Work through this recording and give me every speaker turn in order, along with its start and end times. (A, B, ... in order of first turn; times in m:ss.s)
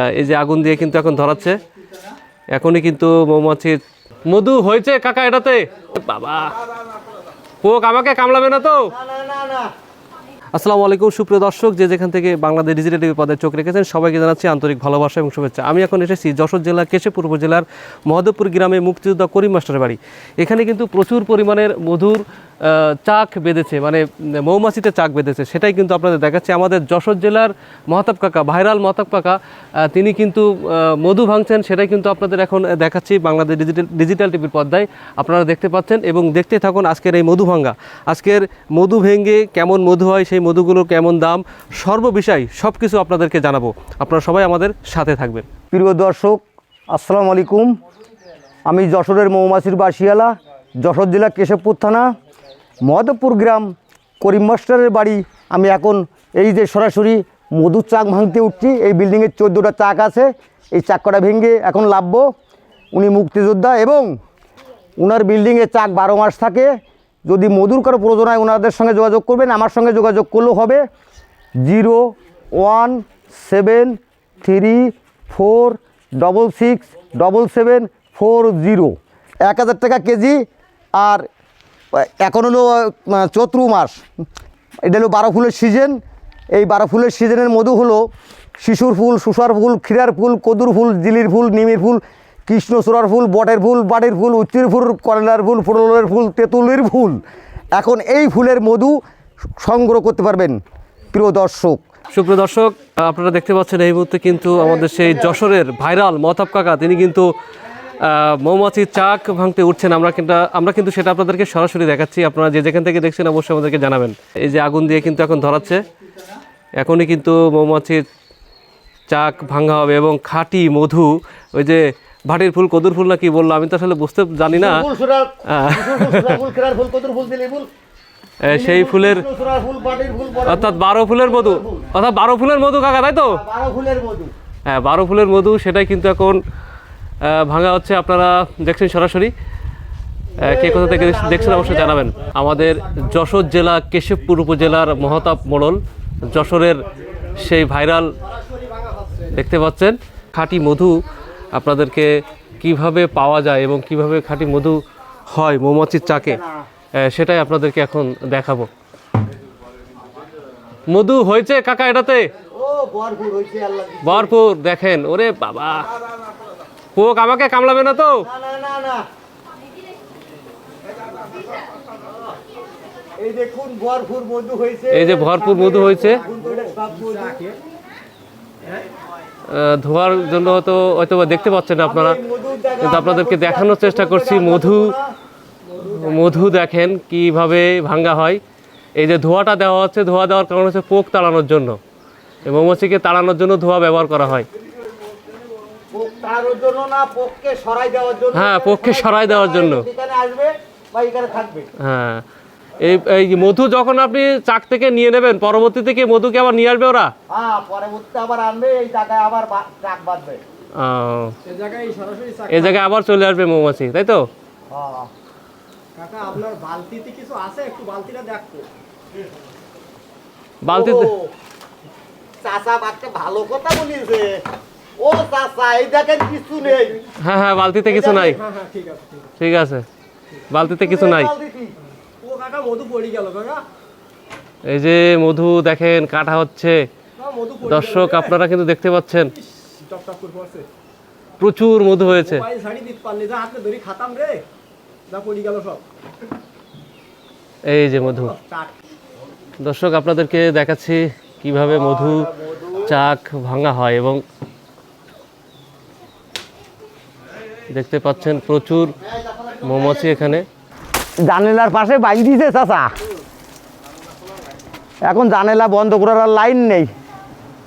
0:00.1-0:01.6 A
0:02.5-0:06.6 A
0:07.6-0:08.9 A
0:08.9-0:09.7 B
0:10.6-0:45.5 A
0:45.7-0:47.7 B
0:48.7-0:50.3 B
0:50.8-0:52.1 B
0:52.9-0:53.7 B
0:54.2-1:02.3 B
1:02.9-1:04.1 B
1:05.0-1:06.7 B
1:07.3-1:10.8 B
1:11.6-1:20.4 B
1:21.0-1:21.3 B
1:21.9-1:24.0 B
1:24.8-1:26.0 B
1:26.5-1:28.0 B
1:28.6-1:37.2 B
1:37.8-1:39.0 B
1:39.6-1:40.6 B
1:41.1-1:41.8 B
1:42.1-1:47.3 A
1:48.0-1:55.8 A
1:56.8-1:58.0 A
1:59.1-2:04.8 A
2:04.5-2:07.7 B
2:05.5-2:06.4 A
2:08.5-2:09.2 A
2:08.5-2:11.9 B
2:10.5-2:13.4 A
2:13.2-2:14.3 B
2:14.7-2:16.4 A
2:17.2-2:19.3 A
2:20.4-2:22.1 B
2:20.4-2:26.8 A
2:22.6-2:23.6 C
2:27.4-2:28.1 A
2:28.3-2:29.3 C
2:29.3-2:36.4 A
2:36.0-2:36.6 B
2:37.0-2:38.7 A
2:40.9-2:42.3 A
2:42.5-2:44.3 B
2:44.0-2:45.9 A
2:47.0-2:48.2 A
2:48.2-2:49.0 B
2:53.2-2:57.4 B
2:54.9-2:56.2 A
2:55.9-2:57.6 C
2:59.5-3:02.2 A
3:01.8-3:05.1 B
3:02.8-3:04.9 A
3:05.7-3:06.4 C
3:05.9-3:08.4 A
3:09.0-3:11.8 A
3:12.4-3:14.5 A
3:15.9-3:21.7 B
3:18.3-3:19.8 A
3:21.8-3:22.2 A
3:22.8-3:27.1 A
3:27.3-3:30.4 B
3:30.8-3:31.3 A
3:31.4-3:32.8 C
3:32.5-3:34.3 A
3:34.7-3:35.1 B
3:36.0-3:38.7 C
3:40.6-3:41.1 A
3:40.7-3:41.3 B
3:42.4-3:44.4 B
3:45.0-3:47.0 B
3:47.2-3:48.4 A
3:47.9-3:48.3 B
3:48.0-3:49.3 C
3:49.4-3:49.8 A
3:50.5-3:51.3 A
3:50.8-3:51.7 B
3:52.2-3:53.6 C
3:54.7-3:56.8 A
3:57.2-3:58.3 C
3:57.6-3:59.3 A
3:59.4-4:00.7 C
4:01.4-4:02.4 A
4:02.1-4:04.4 C
4:05.1-4:05.8 C
4:07.7-4:08.4 A
4:08.1-4:08.7 C
4:09.6-4:14.2 A
4:12.0-4:12.7 B
4:17.7-4:19.0 A
4:19.1-4:19.5 B
4:19.6-4:20.5 A
4:21.2-4:22.9 B
4:25.1-4:26.9 B